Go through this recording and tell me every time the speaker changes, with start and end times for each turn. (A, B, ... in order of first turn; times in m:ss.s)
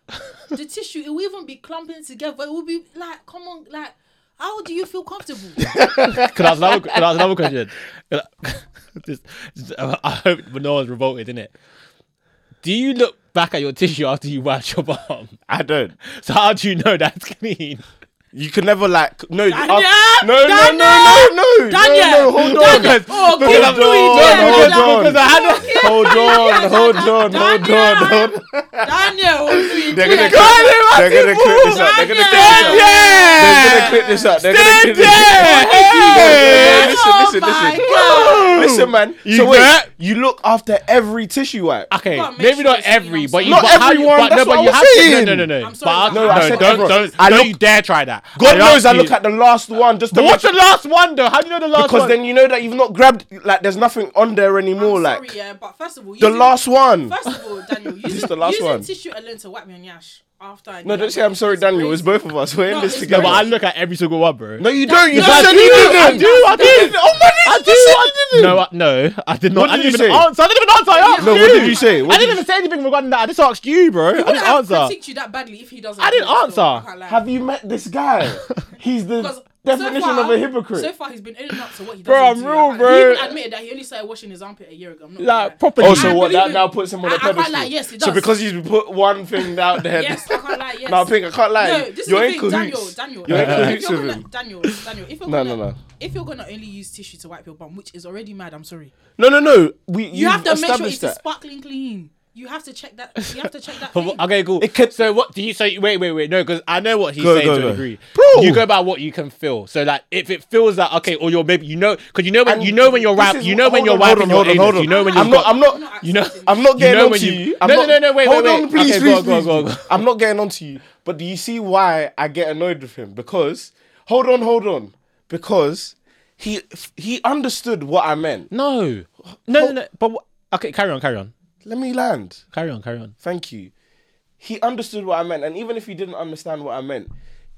0:00.5-0:05.7 A
0:05.7-0:06.3 B
0:05.9-0:11.5 C
0:12.6-0:15.4 C
0:15.5-0:16.0 B
0:16.0-0:17.8 C
0:18.3-0:28.9 B
0:19.5-0:38.7 A
0:22.4-0:26.6 C
0:29.6-0:32.9 B
0:29.9-0:37.1 C
0:33.4-0:41.9 B
0:37.7-0:39.9 C
0:41.9-0:49.2 C
0:42.0-0:44.1 A
0:43.4-0:45.5 B
0:45.6-0:47.2 A
0:46.1-0:47.6 B
0:48.4-0:50.5 B
0:50.1-0:52.2 C
0:51.7-0:55.3 B
0:54.8-1:03.6 A
0:56.2-0:57.2 B
0:58.0-0:58.9 B
1:00.8-1:03.5 B
1:03.1-1:14.9 C
1:04.6-1:08.6 B
1:04.7-1:07.0 A
1:09.5-1:10.3 B
1:10.9-1:12.2 A
1:11.2-1:12.4 B
1:14.1-1:17.2 A
1:16.0-1:16.9 C
1:17.1-1:20.9 B
1:19.2-1:28.3 A
1:22.0-1:23.4 C
1:25.2-1:26.3 C
1:25.8-1:34.2 B
1:29.8-1:38.9 A
1:33.3-1:33.8 C
1:35.3-1:35.8 B
1:39.2-1:41.2 B
1:40.1-1:44.2 A
1:43.9-2:00.0 C
1:44.6-1:45.1 B
1:47.2-1:48.7 B
1:52.5-1:55.9 B
1:54.8-1:56.7 A
1:56.4-2:08.5 B
2:08.5-2:11.3 C
2:11.6-2:12.4 B
2:12.5-2:13.1 C
2:13.2-2:13.7 B
2:14.4-2:17.1 B